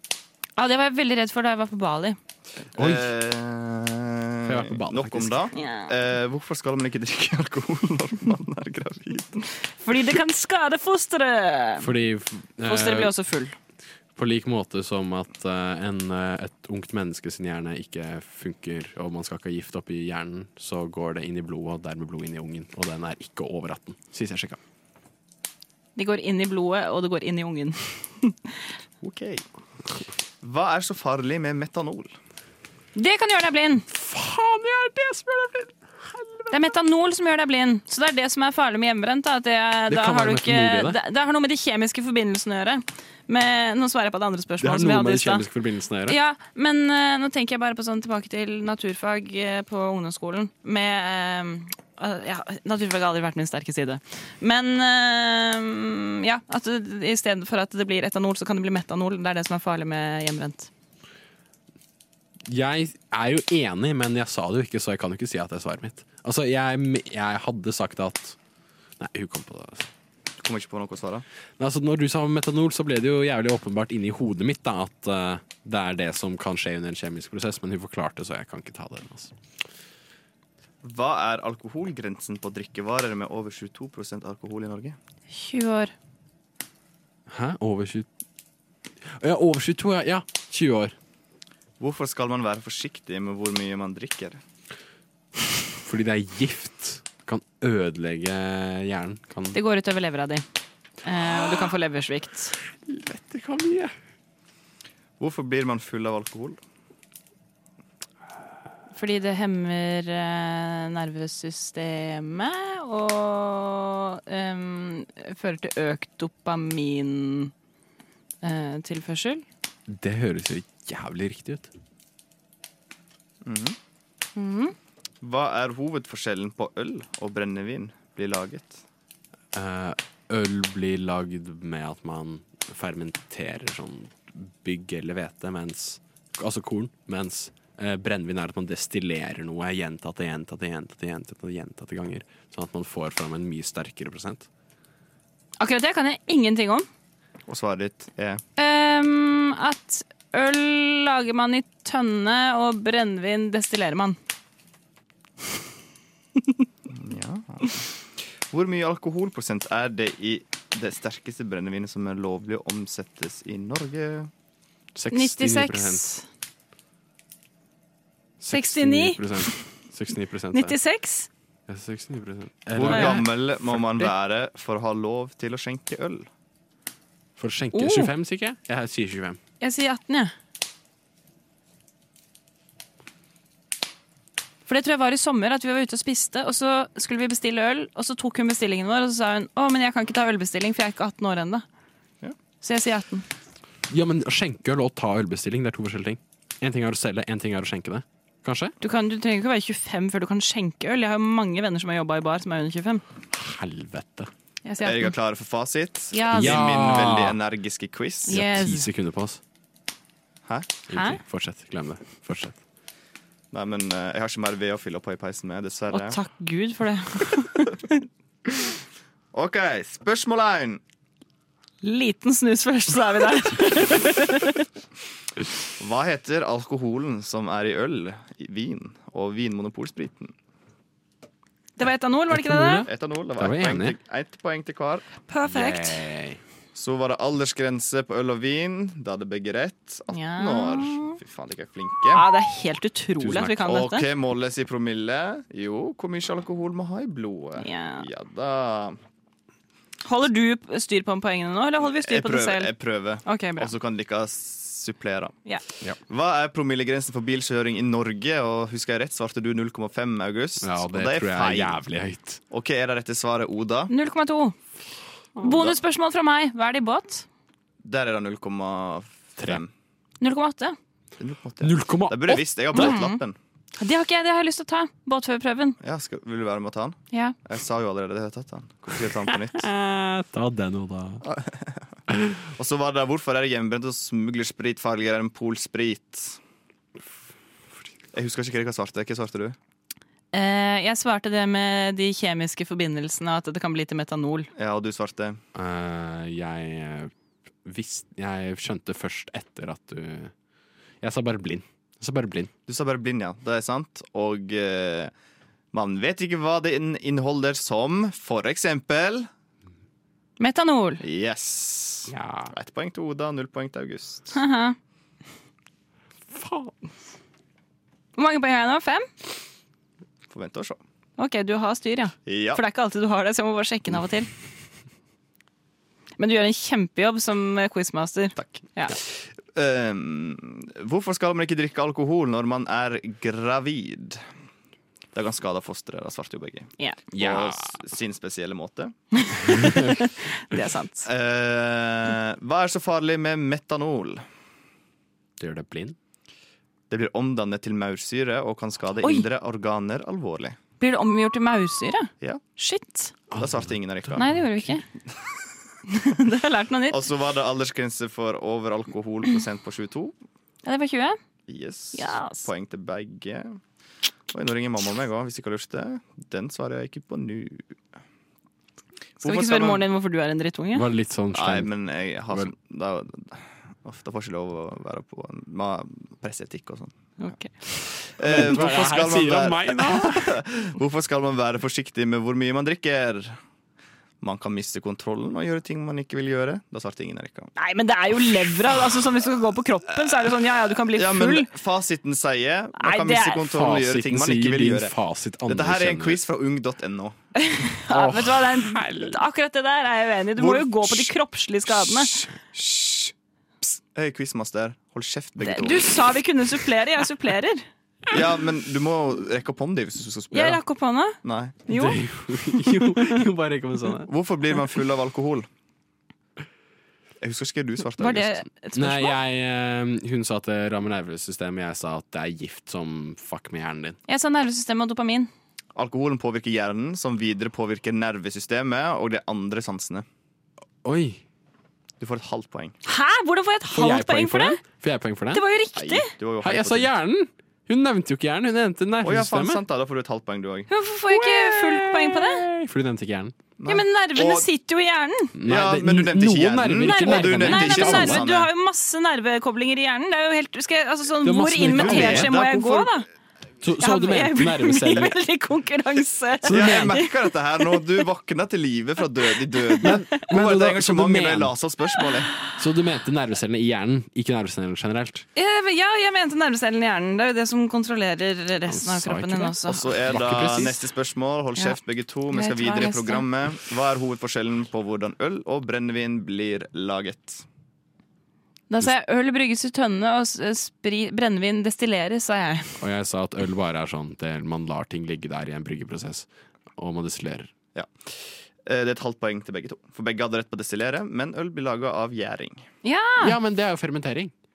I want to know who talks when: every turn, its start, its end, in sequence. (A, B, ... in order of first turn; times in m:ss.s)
0:00.6-0:02.2 A
0:02.7-0:09.4 B
0:02.8-0:03.1 C
0:04.5-0:05.5 C
0:05.5-0:05.9 A
0:09.8-0:11.9 A
0:11.8-0:13.1 C
0:12.6-0:13.6 A
0:14.2-0:24.6 C
0:26.0-0:28.6 A
0:29.0-0:29.4 B
0:30.4-0:32.1 B
0:32.9-0:33.9 A
0:33.9-0:36.5 C
0:36.5-0:45.4 A
0:39.9-0:41.0 C
0:44.6-0:46.2 C
0:46.0-1:00.7 A
1:02.5-1:08.4 C
1:09.0-1:09.9 C
1:10.4-1:11.2 B
1:11.6-1:19.3 C
1:20.8-1:25.0 B
1:25.3-1:25.9 A
1:27.3-1:28.0 C
1:29.0-1:30.9 C
1:31.8-1:34.4 B
1:35.8-1:39.6 C
1:39.5-1:40.4 A
1:41.0-1:42.5 A
1:42.8-1:43.9 C
1:45.2-1:46.6 B
1:48.9-1:57.5 A
1:58.4-1:59.4 A
1:59.9-2:01.7 C
2:03.4-2:03.8 B
2:04.4-2:04.7 A
2:05.2-2:08.8 B
2:09.5-2:24.5 C
2:25.6-2:26.9 A
2:27.5-2:28.4 B
2:28.6-2:34.2 A
2:36.9-2:44.3 B
2:44.9-2:46.1 C
2:45.1-2:46.2 A
2:48.4-2:50.8 C
2:48.5-2:49.5 A
2:50.5-2:51.3 A
2:51.7-2:54.1 C
2:52.7-2:56.3 B
2:52.9-2:53.2 A
2:57.4-2:59.4 C
2:57.7-2:58.1 A
2:59.6-3:00.3 A
3:04.7-3:11.6 A
3:12.6-3:13.2 A
3:13.9-3:18.7 C
3:18.8-3:23.0 A
3:23.3-3:24.3 C
3:24.6-3:25.1 A
3:24.8-3:28.4 B
3:26.1-3:26.7 A
3:26.3-3:27.4 C
3:28.3-3:28.9 A
3:28.3-3:29.4 C
3:30.9-3:31.2 A
3:30.9-3:32.6 C
3:33.5-3:36.2 B
3:35.9-3:38.0 A
3:39.3-3:40.8 B
3:41.8-3:44.6 A
3:45.8-3:50.3 B
3:51.8-3:52.8 A
3:52.3-3:53.9 C
3:52.8-3:55.0 B
3:55.3-3:56.0 A
3:55.4-3:56.4 C
3:56.7-4:02.2 B
4:00.1-4:01.2 A
4:02.1-4:04.1 A
4:03.2-4:03.6 C
4:03.6-4:09.0 B
4:07.6-4:08.0 A
4:10.0-4:13.7 A
4:11.8-4:15.4 B
4:16.0-4:21.8 B
4:20.6-4:22.4 C
4:22.5-4:23.9 B
4:23.9-4:24.6 A
4:25.4-4:27.2 A
4:25.4-4:25.8 B
4:27.8-4:29.7 B
4:30.2-4:30.8 A
4:31.2-4:33.4 B
4:31.6-4:32.9 C
4:32.7-4:33.2 A
4:33.8-4:35.8 A
4:35.8-4:39.7 B
4:39.3-4:41.2 C
4:41.2-4:41.9 B
4:42.1-4:42.4 C
4:42.5-4:46.4 B
4:48.1-4:49.6 B
4:50.3-4:54.5 A
4:54.5-4:55.4 B
4:55.5-4:57.1 C
4:57.6-5:00.3 C
5:01.0-5:02.5 C
5:02.7-5:05.1 B
5:05.7-5:09.3 B
5:10.4-5:11.0 A
5:11.0-5:14.4 B
5:12.1-5:12.5 C
5:14.3-5:14.8 A
5:16.3-5:16.7 C
5:18.2-5:19.1 A
5:20.3-5:20.8 B
5:21.2-5:24.3 A
5:22.2-5:22.6 B
5:26.2-5:29.0 A
5:28.4-5:34.2 B
5:35.1-5:39.3 B
5:37.1-5:37.8 C
5:39.2-5:41.1 A
5:39.4-5:40.0 C
5:41.0-5:44.2 B
5:45.4-5:46.0 C
5:46.9-5:50.6 B
5:49.0-5:49.3 A
5:50.8-5:53.1 A
5:53.3-5:54.5 C
5:53.4-5:54.3 B
5:54.1-5:54.8 A
5:55.1-5:55.4 B
5:55.9-5:57.0 A
5:56.9-6:00.2 B
6:00.6-6:01.2 A
6:01.5-6:03.6 B
6:01.9-6:02.5 A
6:04.3-6:07.8 B
6:09.2-6:09.8 B
6:09.2-6:10.8 A
6:10.7-6:11.7 C
6:11.3-6:17.0 B
6:17.2-6:17.5 A
6:18.1-6:23.4 B
6:18.2-6:20.4 C
6:24.2-6:27.5 B
6:27.6-6:31.5 A
6:30.0-6:30.4 B
6:30.9-6:34.9 B
6:32.8-6:33.5 A
6:33.5-6:36.2 C
6:35.4-6:37.2 B
6:37.4-6:42.2 A
6:37.9-6:39.2 C
6:40.4-6:41.1 B
6:41.7-6:46.0 B
6:45.4-6:47.6 A
6:48.1-6:50.6 B
6:50.3-6:53.2 A
6:51.2-6:51.6 B
6:51.7-6:54.1 C
6:54.0-6:55.5 B
6:57.2-6:58.4 B
6:58.0-6:59.2 A
6:58.7-7:04.0 C
7:04.1-7:05.3 A
7:05.7-7:10.0 B
7:10.8-7:11.2 C
7:12.0-7:12.7 B
7:12.8-7:14.6 A
7:13.7-7:15.4 C
7:15.3-7:16.1 A
7:15.7-7:16.9 B
7:16.4-7:19.6 C
7:19.0-7:20.7 B
7:20.7-7:22.4 A
7:21.1-7:23.3 C
7:23.6-7:24.4 B
7:23.7-7:25.3 A
7:25.4-7:28.2 C
7:25.4-7:28.5 B
7:26.8-7:33.1 A
7:31.2-7:32.3 C
7:31.7-7:33.0 B
7:33.6-7:35.2 C
7:33.8-7:38.0 A
7:36.4-7:37.0 C
7:36.4-7:42.3 B
7:39.5-7:40.0 A
7:39.8-7:41.5 C
7:42.5-7:45.2 C
7:45.3-7:49.9 A
7:48.7-7:50.8 C
7:49.6-7:57.4 B
7:52.3-7:53.3 A
7:58.7-8:02.7 A
8:02.8-8:07.5 C
8:07.7-8:12.7 B
8:12.8-8:13.4 A
8:13.2-8:14.3 C